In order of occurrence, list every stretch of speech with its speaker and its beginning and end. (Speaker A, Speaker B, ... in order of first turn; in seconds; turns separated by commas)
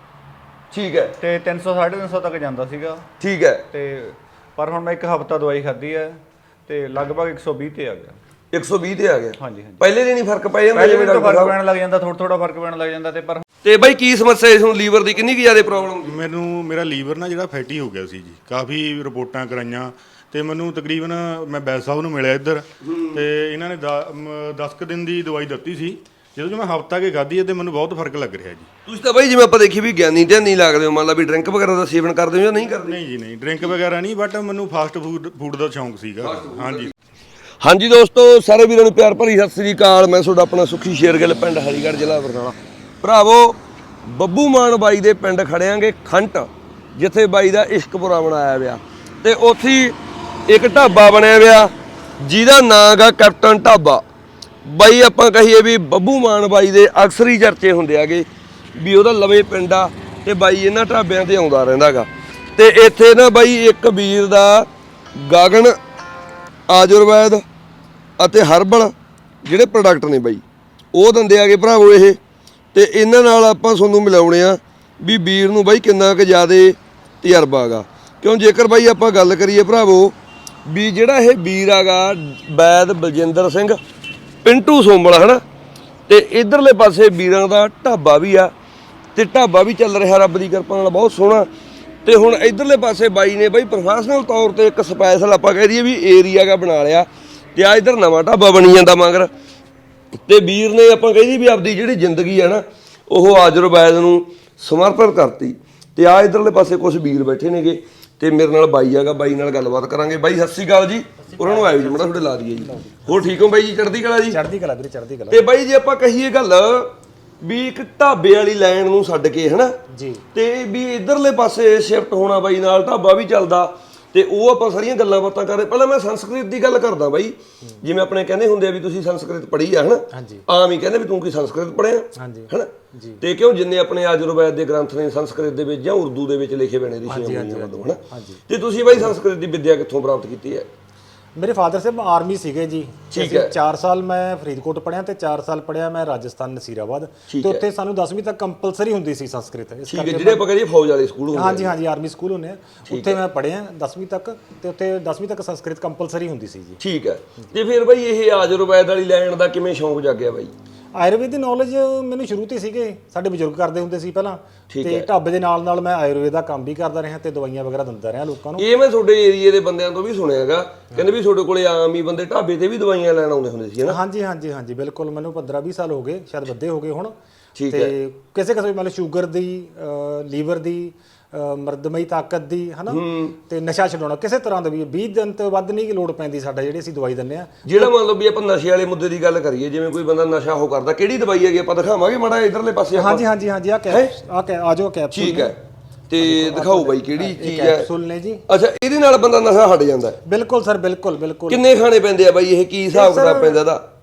Speaker A: 0.7-1.1, Speaker B: 1.2-3.1, Speaker A: 3.2-3.6, Speaker B: 3.7-8.2, Speaker A: 8.5-11.6, Speaker B: 9.4-9.9, Speaker B: 10.7-13.4, Speaker A: 13.6-16.1, Speaker C: 16.0-28.7, Speaker A: 22.8-23.2, Speaker A: 28.9-33.0, Speaker C: 32.7-36.9, Speaker A: 36.2-36.9, Speaker A: 37.6-50.0, Speaker A: 50.5-54.0, Speaker A: 54.6-65.8, Speaker A: 66.7-67.4, Speaker A: 68.2-68.9, Speaker A: 69.4-70.4, Speaker A: 70.9-72.2, Speaker A: 72.7-80.2, Speaker A: 80.7-83.8, Speaker A: 84.4-85.4, Speaker A: 86.1-88.5, Speaker A: 89.2-91.5, Speaker A: 92.0-99.3, Speaker A: 100.3-114.4, Speaker D: 111.2-113.3, Speaker D: 114.3-115.4, Speaker A: 115.3-119.8, Speaker D: 119.9-120.2, Speaker A: 120.3-140.7, Speaker D: 130.1-130.4, Speaker D: 132.2-133.2, Speaker D: 137.1-138.4, Speaker D: 141.3-150.5, Speaker A: 143.1-143.5, Speaker A: 147.3-147.6, Speaker A: 149.9-151.8, Speaker D: 151.3-156.8, Speaker A: 152.9-153.2, Speaker A: 156.8-160.5, Speaker D: 160.9-168.7, Speaker A: 164.7-165.1, Speaker A: 168.6-174.0, Speaker D: 173.9-177.1, Speaker A: 177.6-177.9, Speaker D: 177.7-187.9, Speaker A: 182.9-183.3, Speaker A: 187.7-193.2, Speaker D: 193.0-195.5, Speaker A: 195.1-195.6, Speaker A: 196.1-197.9, Speaker D: 196.2-198.4, Speaker A: 198.5-200.2, Speaker D: 200.2-201.6, Speaker A: 201.5-203.8, Speaker D: 202.9-203.6